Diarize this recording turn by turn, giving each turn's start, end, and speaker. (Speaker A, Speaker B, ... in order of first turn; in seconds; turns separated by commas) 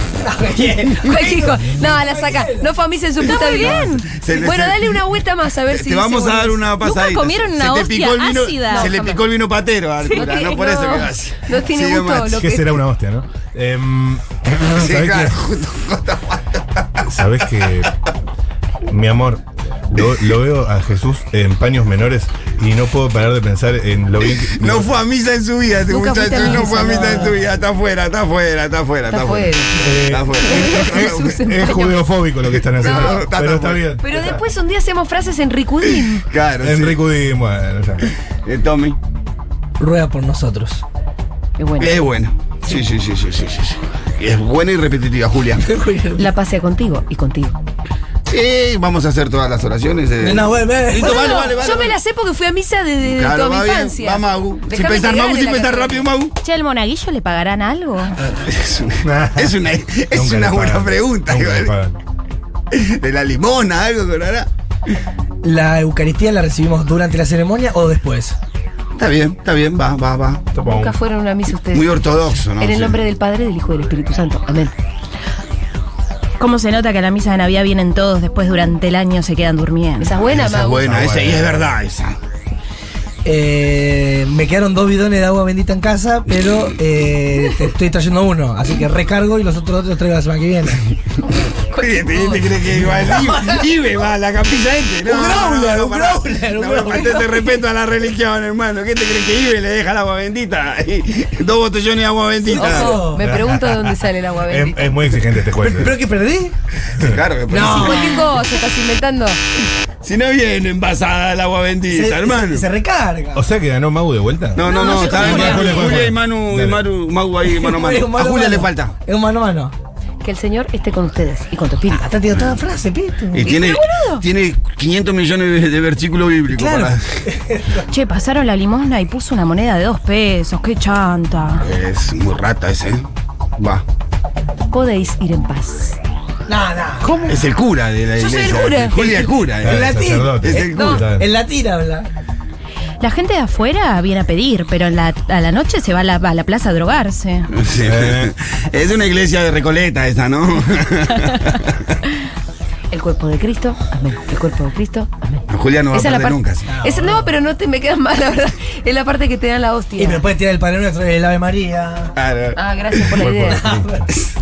Speaker A: 0.2-2.8, Speaker B: 1.0-6.6, Speaker C: 3.2-4.0, Speaker D: 3.3-5.0, Speaker D: 5.7-12.3, Speaker C: 6.8-9.1, Speaker B: 8.7-9.2, Speaker C: 10.0-10.6, Speaker B: 10.1-12.8, Speaker E: 12.3-15.4, Speaker D: 14.7-16.9, Speaker E: 17.0-17.9, Speaker E: 18.9-24.9, Speaker D: 24.2-29.5, Speaker B: 25.9-27.4, Speaker B: 29.1-29.7, Speaker E: 29.8-34.4, Speaker D: 30.1-31.3, Speaker B: 30.4-32.1, Speaker D: 32.5-33.9, Speaker B: 32.8-33.2, Speaker B: 34.0-36.2, Speaker D: 35.8-37.0, Speaker E: 36.6-38.1, Speaker D: 38.4-39.0, Speaker A: 39.8-40.8, Speaker B: 41.6-42.0, Speaker D: 41.8-45.6, Speaker A: 45.6-46.3, Speaker B: 46.1-47.5, Speaker D: 48.2-52.0, Speaker A: 50.2-51.4, Speaker B: 50.9-56.1, Speaker D: 53.0-56.3, Speaker C: 56.4-58.2, Speaker D: 58.3-61.7, Speaker E: 59.0-59.6, Speaker E: 60.1-62.0, Speaker D: 62.7-64.5, Speaker A: 65.4-68.4, Speaker D: 69.0-70.5, Speaker E: 70.5-71.0, Speaker B: 70.6-71.9, Speaker D: 71.7-73.0, Speaker B: 72.6-74.7, Speaker C: 76.4-80.1, Speaker B: 80.0-81.0, Speaker E: 80.3-81.7, Speaker D: 80.4-82.2, Speaker A: 83.2-90.9, Speaker B: 91.7-92.6, Speaker D: 91.7-103.0, Speaker A: 93.0-93.6, Speaker A: 95.0-97.5, Speaker B: 102.5-104.9, Speaker A: 102.5-103.4, Speaker E: 103.2-106.0, Speaker A: 105.6-106.5, Speaker D: 106.9-108.2, Speaker A: 107.5-108.4, Speaker B: 107.5-109.4, Speaker D: 110.0-112.7, Speaker A: 111.9-113.5, Speaker E: 113.3-116.8, Speaker D: 114.5-119.0, Speaker C: 114.7-116.0, Speaker B: 114.9-115.2, Speaker A: 115.2-115.7, Speaker A: 117.4-119.7, Speaker B: 120.2-122.2, Speaker A: 121.9-123.5, Speaker D: 122.3-122.6, Speaker D: 123.3-127.2, Speaker C: 123.4-124.2, Speaker A: 126.5-127.8, Speaker C: 127.9-131.7, Speaker D: 131.6-133.8, Speaker B: 134.7-136.0, Speaker A: 136.5-137.3, Speaker D: 137.2-141.0, Speaker B: 138.2-139.3, Speaker E: 139.6-141.3, Speaker A: 139.6-142.1, Speaker B: 140.7-141.0, Speaker C: 143.0-147.5, Speaker D: 147.5-151.9, Speaker E: 147.8-148.3, Speaker B: 152.9-160.2, Speaker D: 155.5-156.7, Speaker A: 156.7-157.3, Speaker A: 160.0-162.1, Speaker D: 162.2-163.2, Speaker B: 162.6-163.8, Speaker E: 163.2-164.1, Speaker A: 163.5-164.1